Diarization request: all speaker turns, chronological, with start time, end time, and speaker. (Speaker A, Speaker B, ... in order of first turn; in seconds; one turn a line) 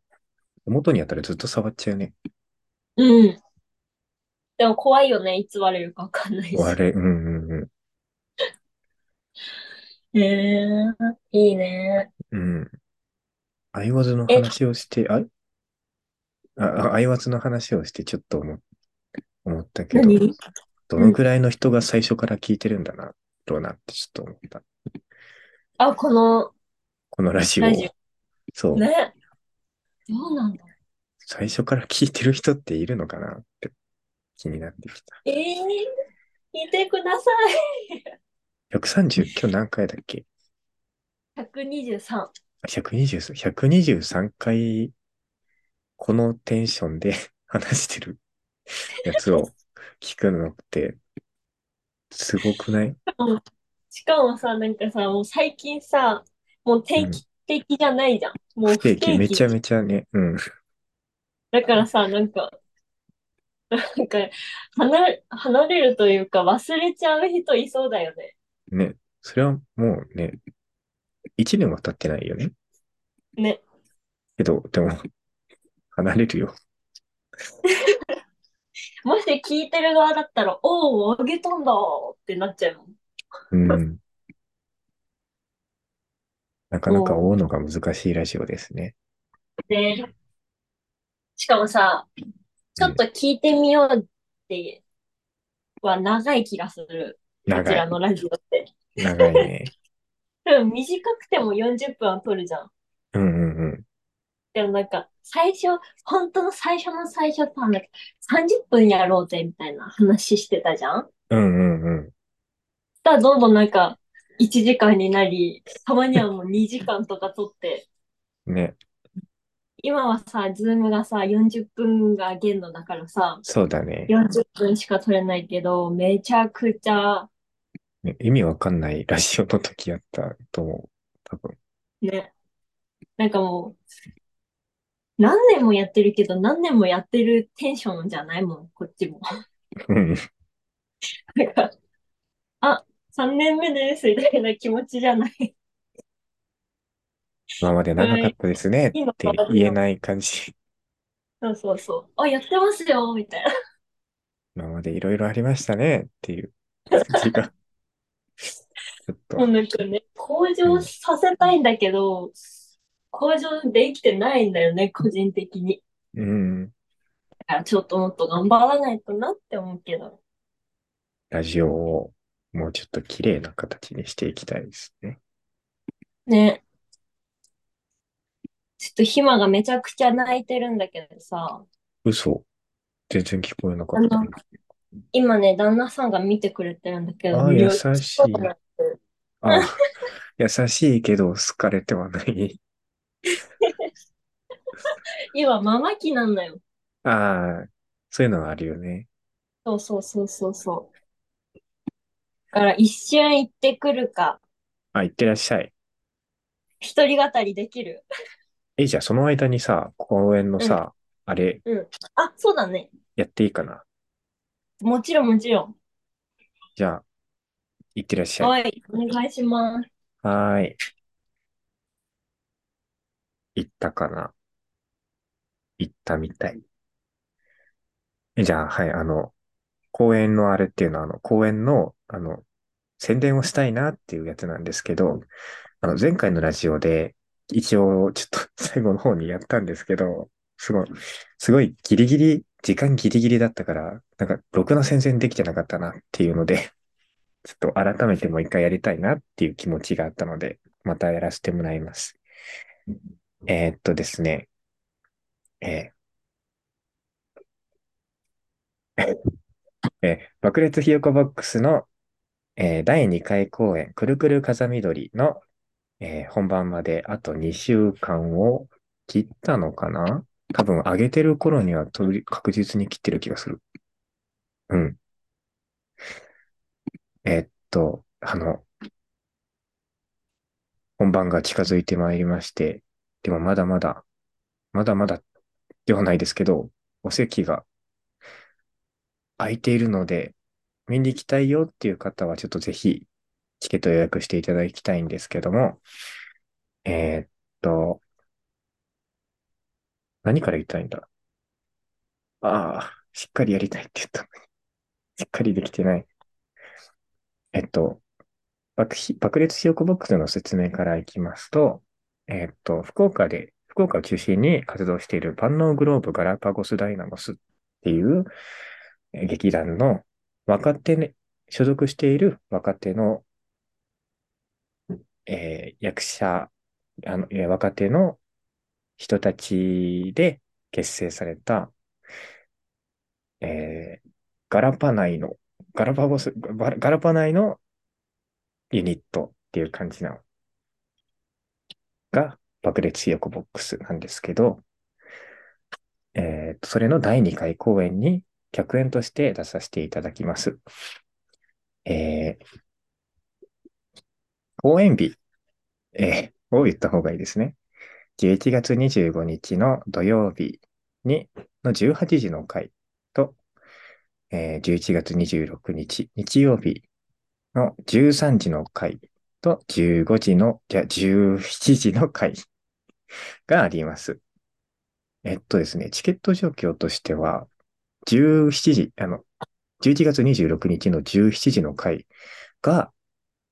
Speaker A: 0.7-2.1
Speaker B: 3.0-3.4
Speaker B: 4.6-6.8
Speaker A: 6.5-7.7
Speaker B: 10.1-12.1
Speaker A: 12.3-12.7
Speaker A: 13.7-15.3
Speaker A: 16.6-18.6
Speaker A: 19.4-20.2
Speaker B: 19.9-20.3
Speaker A: 20.9-24.6
Speaker B: 25.8-26.5
Speaker A: 27.1-27.9
Speaker B: 27.6-27.9
Speaker A: 28.6-28.9
Speaker B: 28.8-29.1
Speaker B: 30.1-30.7
Speaker A: 31.2-33.7
Speaker A: 34.4-35.2
Speaker B: 35.2-35.9
Speaker B: 36.5-37.4
Speaker A: 38.7-40.3
Speaker B: 41.4-42.3
Speaker A: 42.6-44.9
Speaker A: 46.0-48.2
Speaker A: 49.0-51.0
Speaker A: 52.1-53.0
Speaker B: 53.9-59.5
Speaker A: 58.7-60.4
Speaker B: 61.5-62.5
Speaker B: 63.7-68.3
Speaker A: 68.7-70.4
Speaker A: 71.4-72.5
Speaker B: 73.4-73.6
Speaker A: 74.4-75.0
Speaker A: 75.9-76.5
Speaker B: 77.7-78.0
Speaker B: 79.0-83.0
Speaker A: 83.5-84.0
Speaker A: 86.7-89.0
Speaker B: 86.9-87.3
Speaker B: 89.7-90.1
Speaker B: 91.4-92.1
Speaker B: 92.8-94.8
Speaker B: 95.8-99.4
Speaker A: 97.5-97.9
Speaker A: 99.0-99.7
Speaker B: 100.5-102.7
Speaker A: 103.1-103.8
Speaker B: 104.5-111.1
Speaker A: 111.3-112.1
Speaker B: 113.0-117.9
Speaker A: 118.5-118.8
Speaker B: 119.8-123.4
Speaker A: 123.4-124.1
Speaker B: 124.1-127.3
Speaker A: 128.0-131.6
Speaker B: 132.0-132.3
Speaker B: 133.2-133.8
Speaker B: 135.2-139.2
Speaker A: 139.9-140.2
Speaker B: 141.4-141.7
Speaker B: 142.6-145.6
Speaker A: 147.6-150.5
Speaker B: 148.0-148.3
Speaker B: 148.9-149.8
Speaker B: 151.4-153.5
Speaker A: 154.6-157.5
Speaker B: 156.9-157.2
Speaker A: 159.1-159.5
Speaker B: 159.4-162.3
Speaker B: 163.1-165.8
Speaker A: 166.2-166.7
Speaker B: 167.5-170.2
Speaker A: 171.3-175.2
Speaker B: 176.3-176.6
Speaker B: 178.8-181.7
Speaker A: 182.1-182.4
Speaker A: 183.1-184.3
Speaker B: 183.9-184.3
Speaker B: 185.1-189.0
Speaker A: 187.3-188.5
Speaker A: 189.4-189.8
Speaker A: 190.4-192.6
Speaker B: 193.6-193.9
Speaker B: 195.3-196.6
Speaker A: 197.0-199.1
Speaker B: 199.7-200.9
Speaker B: 202.5-204.4
Speaker A: 204.9-205.7
Speaker B: 206.8-208.0
Speaker A: 208.8-211.6
Speaker B: 211.7-212.9
Speaker A: 213.2-213.8
Speaker B: 214.8-215.8
Speaker A: 216.8-217.0
Speaker A: 217.9-218.5
Speaker B: 218.4-219.9
Speaker A: 220.2-220.8
Speaker A: 223.6-224.3
Speaker A: 225.8-226.6
Speaker A: 228.4-229.3
Speaker A: 229.9-232.4
Speaker A: 233.0-235.2
Speaker A: 235.8-246.7
Speaker A: 247.4-252.2
Speaker A: 253.5-254.5
Speaker A: 255.6-255.9
Speaker A: 260.0-261.9
Speaker A: 262.6-265.4
Speaker A: 266.0-273.6
Speaker A: 274.7-275.0
Speaker A: 277.2-278.6
Speaker A: 281.0-284.1
Speaker A: 284.7-285.2
Speaker A: 285.9-287.7
Speaker A: 289.4-290.4
Speaker A: 290.9-293.1
Speaker A: 293.6-295.8
Speaker A: 296.9-298.0
Speaker A: 300.2-301.1
Speaker A: 302.4-304.3
Speaker A: 305.2-306.1
Speaker A: 307.5-308.0
Speaker A: 308.8-318.3
Speaker A: 319.1-323.2
Speaker A: 325.3-326.5
Speaker A: 327.1-328.2
Speaker A: 329.0-331.7
Speaker A: 333.4-337.6
Speaker A: 338.7-340.2
Speaker A: 342.1-344.6
Speaker A: 346.1-350.6
Speaker A: 351.9-352.4
Speaker A: 354.6-355.2
Speaker A: 355.9-357.6
Speaker A: 358.2-363.4
Speaker A: 364.3-366.9
Speaker A: 367.5-372.4
Speaker A: 373.5-374.2
Speaker A: 375.2-377.5
Speaker A: 378.1-379.2
Speaker A: 379.8-382.1
Speaker A: 382.6-382.9